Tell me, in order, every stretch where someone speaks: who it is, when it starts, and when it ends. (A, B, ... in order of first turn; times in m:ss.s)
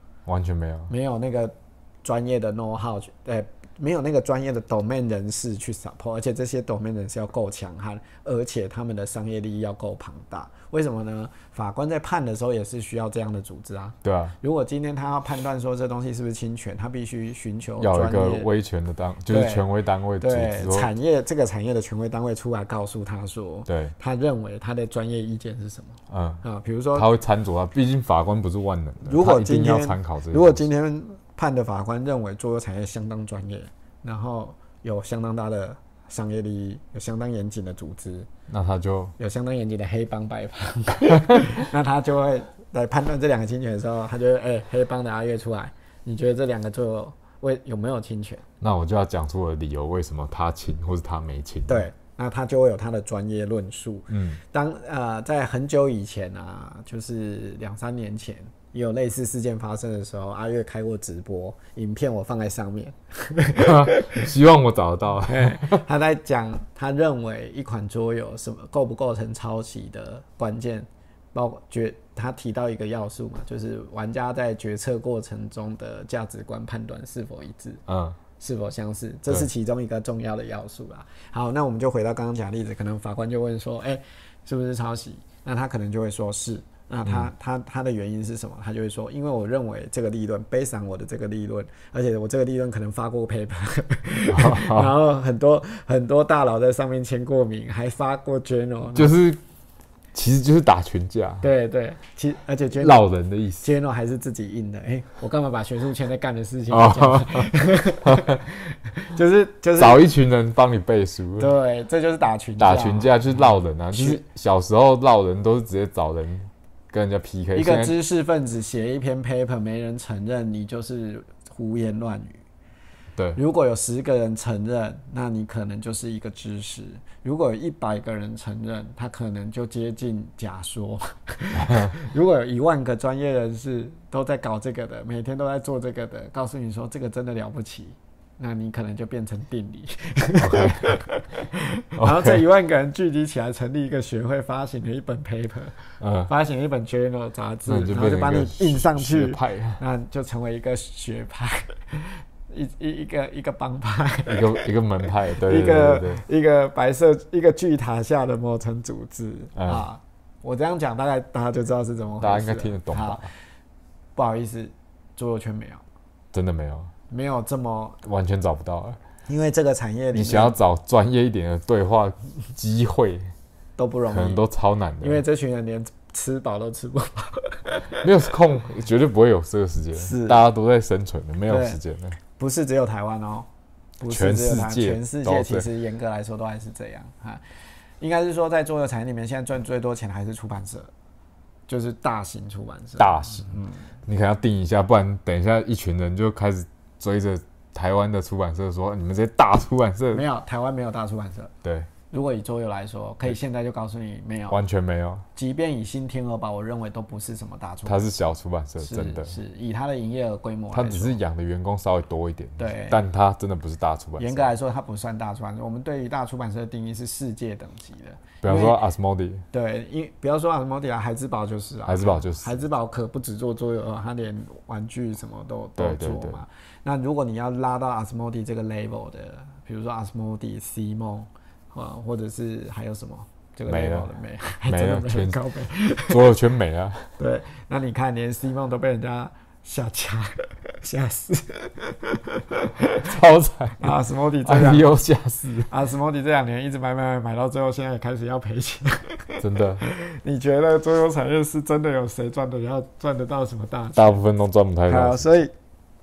0:00.2-0:00.9 A
0:00.9-0:18.5 B
0:14.0-0:14.4 A
0:17.8-0:20.9 A
0:19.3-0:19.7 B
0:20.2-0:27.1 B
0:23.7-0:23.9 A
0:26.1-0:26.4 A
0:26.9-0:30.6 A
0:29.0-0:38.3 B
0:38.5-0:39.1 A
0:39.2-0:48.4 B
0:48.6-0:51.9 A
0:51.7-1:04.3 B
0:54.1-0:54.4 A
1:03.6-1:05.8 A
1:05.2-1:17.8 B
1:17.9-1:18.2 A
1:18.4-1:39.2 B
1:34.3-1:34.9 A
1:38.9-1:39.4 A
1:40.1-1:41.5 A
1:41.4-1:43.0 B
1:42.8-1:43.7 A
1:43.6-1:50.0 B
1:46.7-1:47.5 A
1:48.0-1:48.4 A
1:49.8-1:51.5 A
1:51.4-1:54.2 B
1:52.6-1:57.9 A
1:57.5-2:02.4 B
2:03.3-2:43.3 B
2:11.6-2:11.9 A
2:20.4-2:21.0 A
2:22.0-2:22.4 A
2:26.0-2:26.3 A
2:27.6-2:29.8 A
2:34.2-2:36.2 A
2:39.6-2:39.8 A
2:42.2-2:43.3 A
2:44.2-2:45.8 B
2:46.3-2:46.9 A
2:47.1-2:48.0 B
2:48.0-2:49.0 A
2:49.3-2:50.5 B
2:50.1-2:53.3 A
2:53.8-2:54.4 B
2:54.1-2:55.2 A
2:55.0-2:58.0 B
2:58.0-3:02.2 A
3:00.0-3:00.4 B
3:01.5-3:01.8 B
3:02.4-3:03.5 B
3:04.0-3:07.4 B
3:04.1-3:05.7 A
3:08.0-3:10.9 B
3:11.7-3:13.9 B
3:13.0-3:20.2 A
3:20.1-3:21.5 B
3:21.6-3:21.9 A
3:22.1-3:24.6 B
3:24.5-3:25.2 A
3:25.3-3:28.1 B
3:27.8-3:29.3 A
3:28.8-3:31.2 B
3:30.7-3:34.5 A
3:32.6-3:33.0 B
3:34.2-3:38.8 B
3:38.4-3:39.4 A
3:39.5-3:56.4 B
3:41.8-3:42.6 A
3:45.8-3:46.4 A
3:53.7-3:54.1 A
3:54.6-3:55.4 A
3:56.1-3:57.1 A
3:57.2-4:03.0 B
4:03.0-4:05.7 A
4:03.8-4:04.9 B
4:05.7-4:14.2 B
4:09.4-4:09.8 A
4:13.9-4:15.3 A
4:14.8-4:15.5 B